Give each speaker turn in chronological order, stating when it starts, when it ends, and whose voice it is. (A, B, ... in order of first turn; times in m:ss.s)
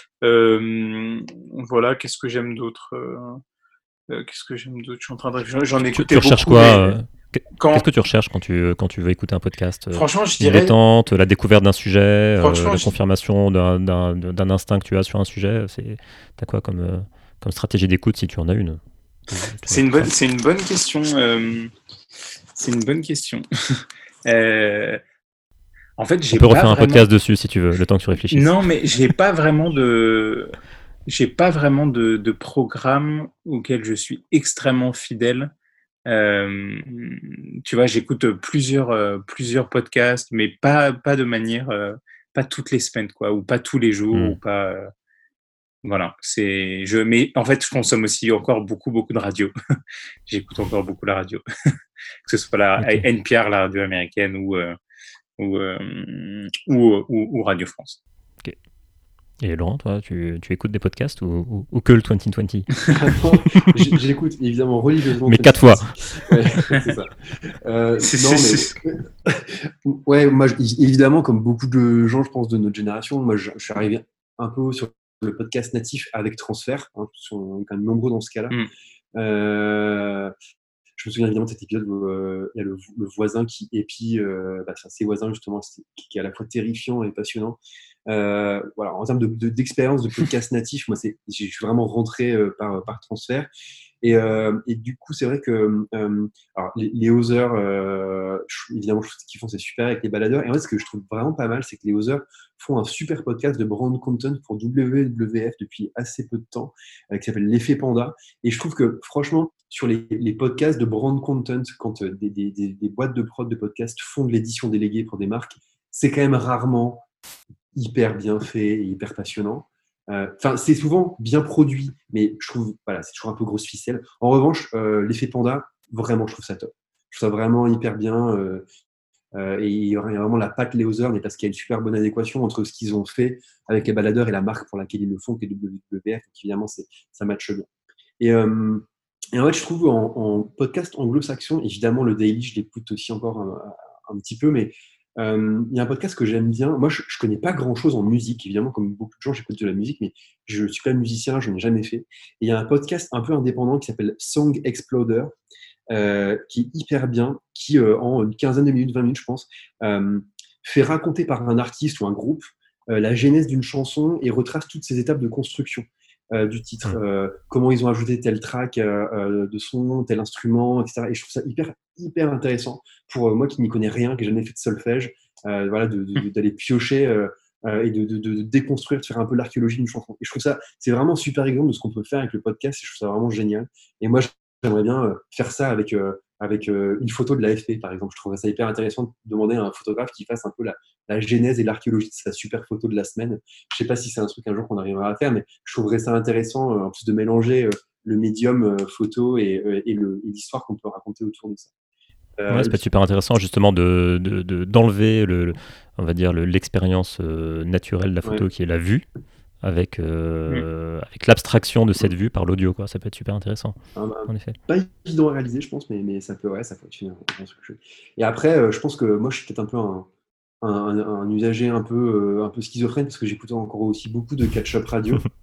0:00.2-0:03.4 A
0:04.1-0:07.0 A
0:05.9-0:20.1 B
0:07.6-0:07.8 A
0:09.9-0:10.7 A
0:12.4-0:12.9 A
0:19.7-0:21.7 A
0:22.6-0:25.0 A
0:26.0-0:27.1 A
0:26.3-0:28.5 B
0:28.3-0:30.5 A
0:31.1-0:35.5 A
0:36.1-0:44.9 A
0:44.1-0:44.4 B
0:45.8-0:49.5 A
0:50.3-0:51.4 A
0:52.2-0:54.8 A
0:52.8-0:53.0 B
0:55.4-0:58.0 A
0:59.4-1:02.7 B
1:02.9-1:18.5 C
1:05.2-1:05.9 B
1:08.0-1:08.7 A
1:19.2-1:20.3 C
1:21.0-1:33.5 C
1:34.0-1:57.0 C
1:57.7-2:08.6 C
2:09.3-2:17.7 C
2:18.2-2:35.3 C
2:35.9-3:21.7 C
3:22.4-3:22.8 C
3:22.5-3:29.0 B
3:29.6-3:34.6 B
3:34.0-3:40.1 C
3:40.6-3:45.3 C